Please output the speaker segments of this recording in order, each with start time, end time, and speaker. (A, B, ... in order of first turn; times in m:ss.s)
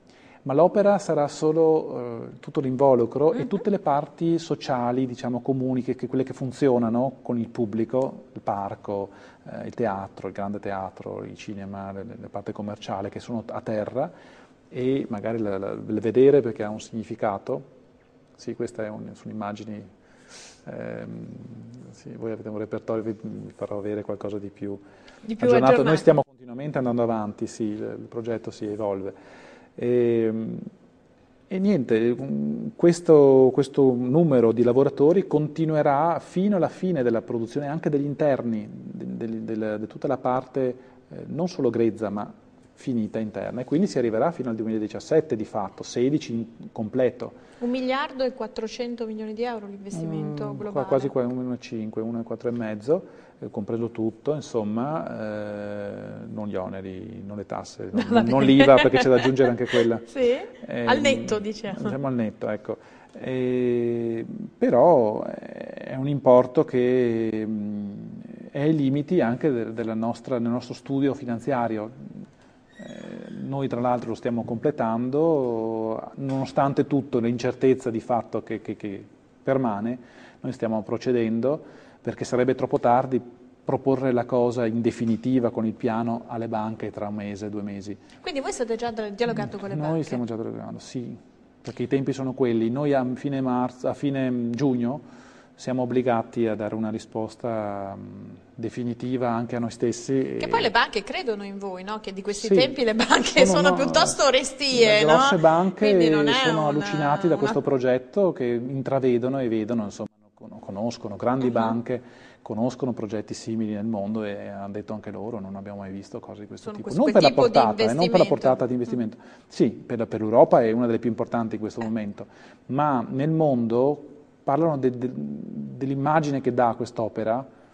0:00.4-0:14.1 A
0:14.7-0:17.6 A
0:18.4-0:19.8 A
0:20.6-0:24.8 A
0:25.2-0:26.1 B
0:25.4-0:29.1 A
0:29.8-0:30.7 A
0:31.5-0:47.4 A
0:47.6-0:51.1 B
0:49.9-1:00.1 A
0:57.9-0:59.3 B
1:00.0-1:01.9 B
1:00.6-1:12.1 A
1:12.8-1:28.0 A
1:28.2-1:30.2 B
1:29.3-1:35.0 A
1:35.6-1:40.7 A
1:40.4-1:47.6 B
1:42.4-1:42.8 A
1:43.3-1:44.2 A
1:44.7-2:07.4 A
1:51.4-1:51.7 B
1:56.6-1:58.6 B